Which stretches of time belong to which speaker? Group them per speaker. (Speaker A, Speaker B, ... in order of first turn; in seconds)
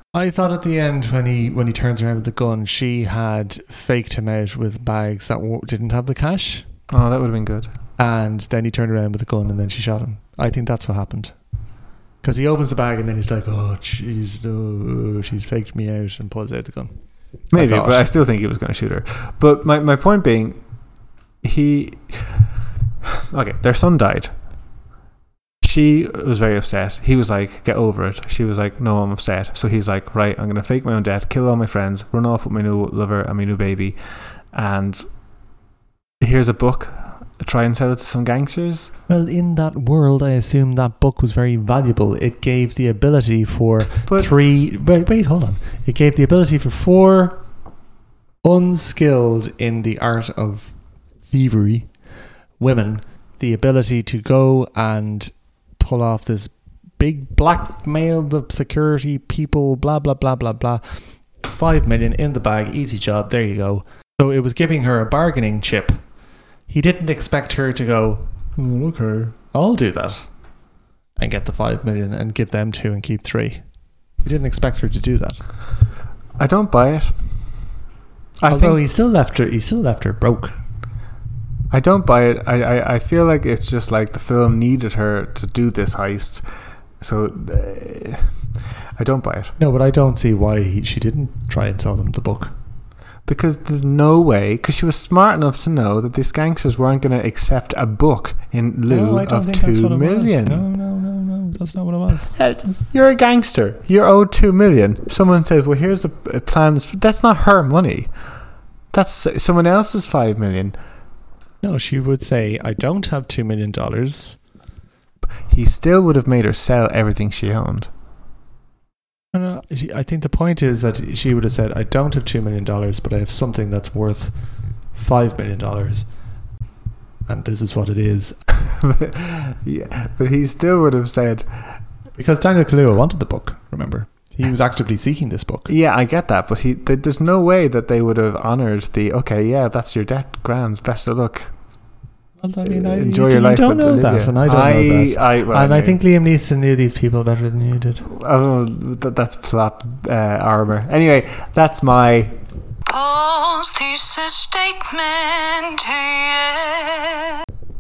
Speaker A: 0.1-6.7, 8.0-11.3, 12.2-16.9, 17.5-18.1, 39.1-47.4, 48.4-50.7, 51.2-51.9, 52.6-66.0, 66.7-70.3, 71.2-73.6, 74.2-75.4, 78.5-80.5, 89.6-92.5, 98.9-102.3, 111.6-114.4, 119.3-124.3, 125.0-126.1, 127.3-128.4, 132.2-135.7, 142.4-148.1
Speaker B: 6.9-7.7, 17.5-20.6, 21.4-22.5, 23.2-24.3, 25.6-34.0, 34.5-35.0, 36.2-38.9, 76.4-77.5, 78.4-78.8, 81.7-86.4, 87.0-88.3, 89.0-89.5, 93.3-100.7, 102.4-108.1, 108.9-110.8, 115.5-117.9, 128.6-131.5, 135.7-141.5, 142.7-146.0, 148.1-152.3
Speaker C: 152.9-157.4